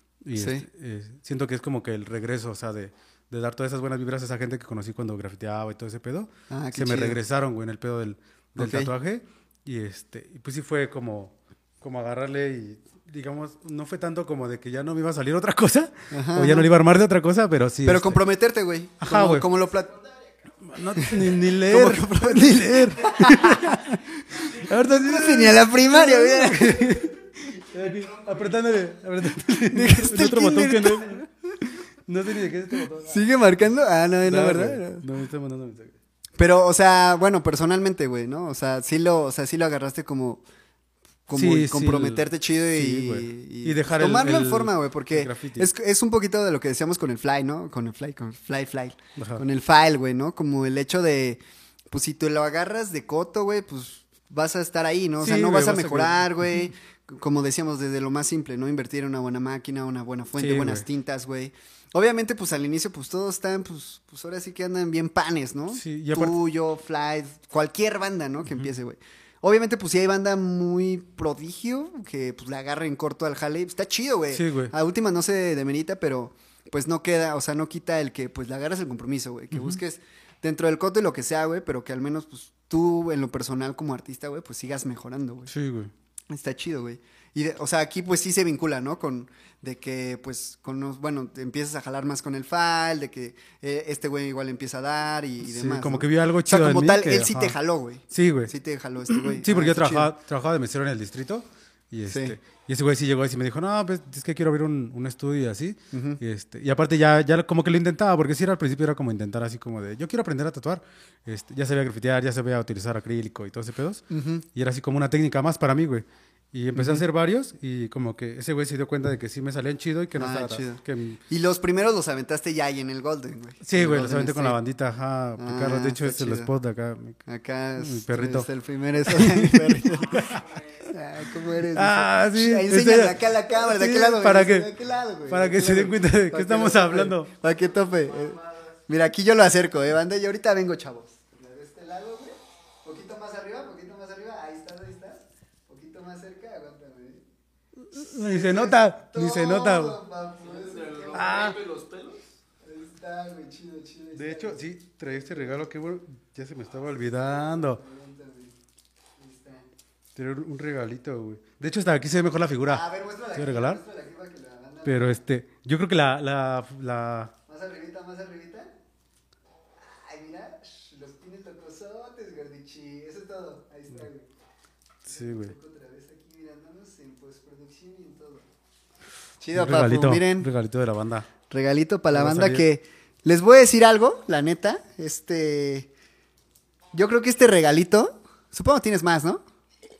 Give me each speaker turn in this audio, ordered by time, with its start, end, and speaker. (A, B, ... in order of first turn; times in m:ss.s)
0:00.2-0:18.2 A
0:00.3-0:00.6 B
0:06.5-0:07.2 B
0:08.6-0:08.9 B
0:16.1-0:16.7 B
0:17.8-0:19.9 B
0:19.0-0:19.5 A
0:19.5-0:21.3 C
0:20.6-0:31.2 A
0:20.9-0:26.9 B
0:27.7-0:28.9 C
0:29.6-0:31.7 B
0:32.0-0:33.2 A
0:33.0-0:35.0 B
0:34.2-0:35.9 A
0:36.4-0:40.4 B
0:41.3-1:25.5 B
0:41.3-0:45.7 A
0:49.2-0:49.4 A
0:55.2-0:56.6 A
1:00.4-1:00.8 A
1:05.7-1:06.4 A
1:14.3-1:14.7 A
1:19.5-1:19.8 A
1:25.5-1:25.9 A
1:26.3-1:40.1 B
1:35.4-1:37.6 A
1:38.1-1:38.5 A
1:39.1-2:01.2 A
1:42.1-1:42.4 B
1:45.9-1:46.2 B
1:54.1-1:54.4 B
1:56.8-1:57.0 B
2:00.2-2:04.6 B
2:03.6-2:07.2 A
2:05.4-2:06.5 B
2:07.2-2:27.2 B
2:07.8-2:08.5 A
2:09.0-2:10.4 A
2:10.3-2:10.7 C
2:11.7-2:14.7 A
2:15.3-2:17.3 A
2:27.9-2:30.0 A
2:28.0-2:31.3 B
2:30.5-2:32.2 C
2:31.1-2:31.6 A
2:32.6-2:34.6 B
2:34.1-2:37.8 A
2:37.2-2:38.5 B
2:39.2-2:39.6 B
2:40.2-2:43.8 A
2:42.7-2:45.2 B
2:44.8-2:47.3 A
2:47.5-2:48.7 B
2:49.8-2:54.3 B
2:55.0-2:55.5 A
2:55.0-2:58.5 B
2:59.4-3:00.5 B
2:59.5-3:01.3 A
3:01.5-3:05.9 B
3:02.1-3:02.7 A
3:06.9-3:09.4 B